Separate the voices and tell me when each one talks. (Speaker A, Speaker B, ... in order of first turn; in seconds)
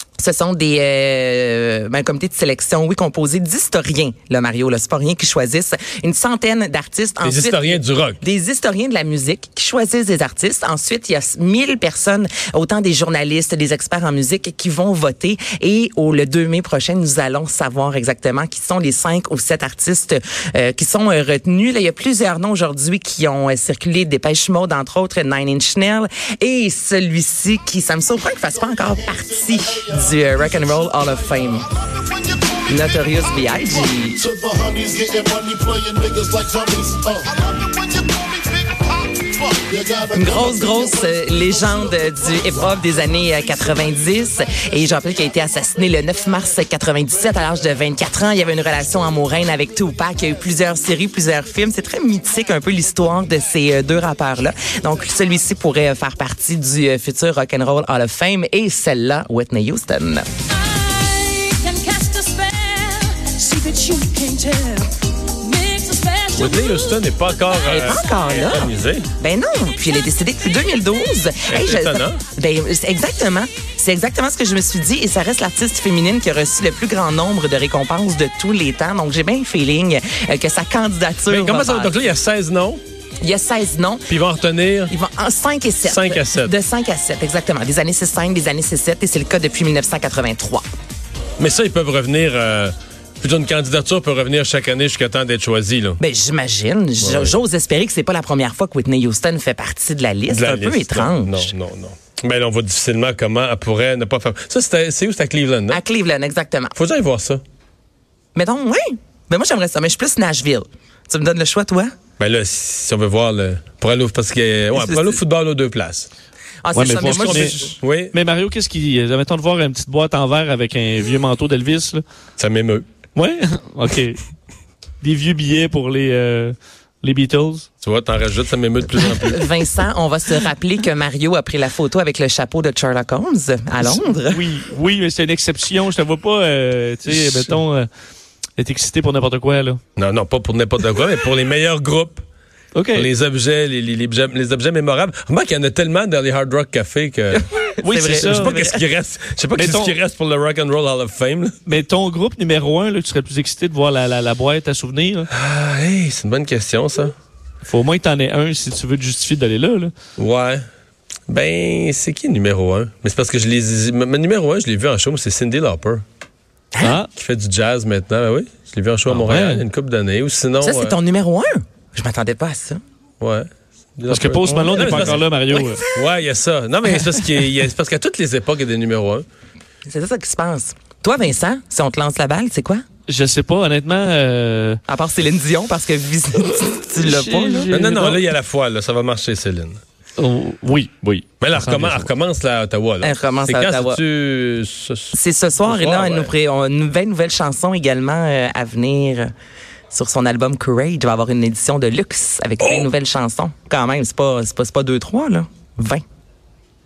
Speaker A: 0.2-31.7, 32.7-34.2, 40.1-60.2, 67.6-82.0, 83.2-84.1, 84.9-90.6, 96.0-101.5, 105.7-106.7, 108.3-111.9, 114.7-115.2, 116.6-117.7, 129.0-134.4, 147.3-148.8, 170.6-172.8, 174.5-176.0, 179.8-182.8, 184.9-187.7, 193.0-194.0, 195.1-199.3, 199.9-206.0
Speaker B: 7.2-8.2, 66.3-69.1, 71.5-72.2, 81.3-82.8, 84.1-84.9, 85.8-86.5, 91.4-96.0, 97.0-97.3, 100.3-105.8, 106.8-107.4, 112.2-116.1, 117.1-118.1, 122.4-122.8, 127.8-129.5, 137.1-137.6, 140.0-142.2, 142.9-147.5, 148.0-151.6, 155.3-157.1, 160.2-160.6, 161.3-166.0, 167.1-170.9, 173.2-175.2, 175.8-179.2, 187.7-189.8, 191.4-196.3, 202.6-202.9
Speaker C: 32.0-32.5, 34.2-40.8
Speaker D: 61.6-62.4, 63.6-64.9, 65.7-66.8
Speaker E: 116.7-122.0, 123.2-124.2, 125.0-127.7, 133.8-137.9, 138.6-139.8, 142.7-143.1, 147.8-148.6, 149.6-149.9, 151.7-155.3, 157.7-159.9, 166.8-167.1, 169.1-169.6, 174.1-175.8, 183.1-184.8, 186.9-188.2, 190.2-192.1